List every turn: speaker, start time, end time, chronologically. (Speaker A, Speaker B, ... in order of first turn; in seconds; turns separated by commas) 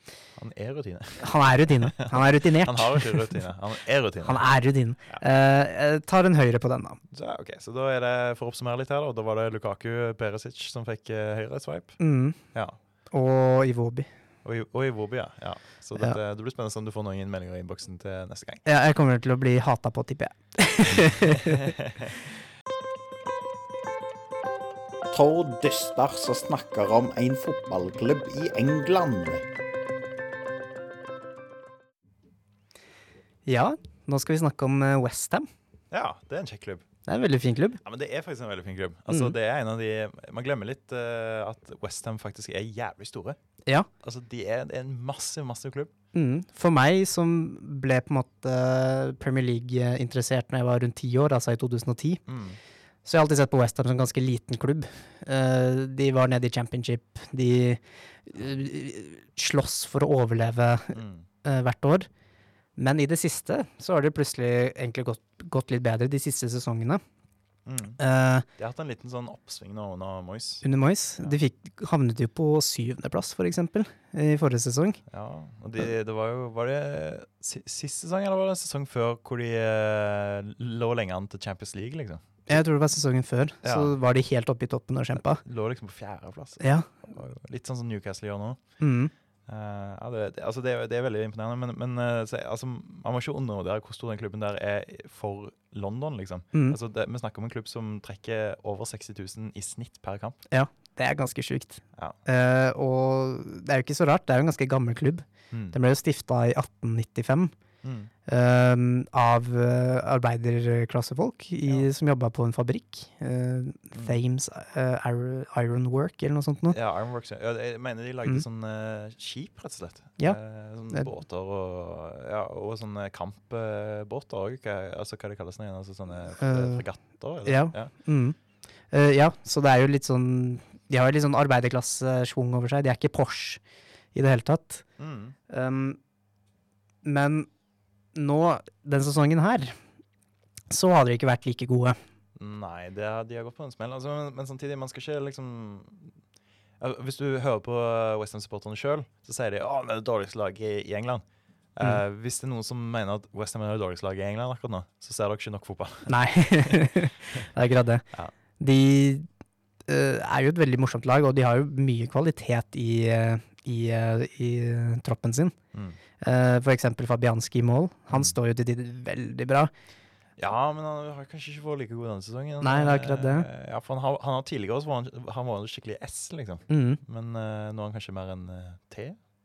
Speaker A: 0.4-4.4, Speaker B: 1.2-3.4, Speaker B: 4.2-7.0, Speaker A: 7.1-12.0, Speaker B: 12.0-12.4, Speaker B: 13.1-14.1, Speaker A: 14.4-18.6, Speaker B: 18.6-21.7, Speaker A: 21.4-22.1, Speaker C: 25.1-29.4, Speaker B: 33.5-35.5, Speaker A: 35.9-36.8, Speaker B: 37.1-37.8, Speaker A: 37.8-43.4, Speaker A: 44.0-45.9, Speaker B: 46.1-52.2, Speaker A: 52.3-52.6, Speaker B: 53.0-62.1, Speaker A: 60.9-61.2, Speaker B: 62.8-67.0, Speaker A: 67.7-68.0, Speaker B: 68.0-68.5, Speaker A: 68.6-70.6, Speaker B: 70.6-75.0, Speaker A: 75.1-82.6, Speaker B: 82.5-85.4, Speaker A: 83.6-83.9, Speaker A: 85.2-88.6, Speaker B: 86.6-86.9, Speaker B: 88.8-89.1, Speaker A: 89.5-100.4, Speaker B: 100.5-107.5, Speaker A: 105.5-105.8, Speaker A: 107.8-108.1, Speaker B: 108.3-116.8, Speaker A: 116.7-127.9, Speaker B: 126.4-126.8, Speaker B: 127.4-128.3, Speaker B: 128.9-133.6, Speaker B: 134.1-134.8, Speaker A: 135.0-135.3, Speaker B: 135.5-136.0, Speaker B: 137.0-137.5, Speaker B: 138.1-139.7, Speaker B: 140.7-141.9, Speaker A: 142.4-146.1, Speaker A: 146.8-151.2, Speaker A: 151.8-157.4, Speaker B: 156.1-158.0, Speaker B: 158.6-159.3, Speaker B: 159.9-165.6, Speaker A: 165.7-166.0, Speaker B: 166.2-169.7, Speaker A: 170.4-179.2, Speaker B: 172.6-173.5, Speaker B: 176.7-177.0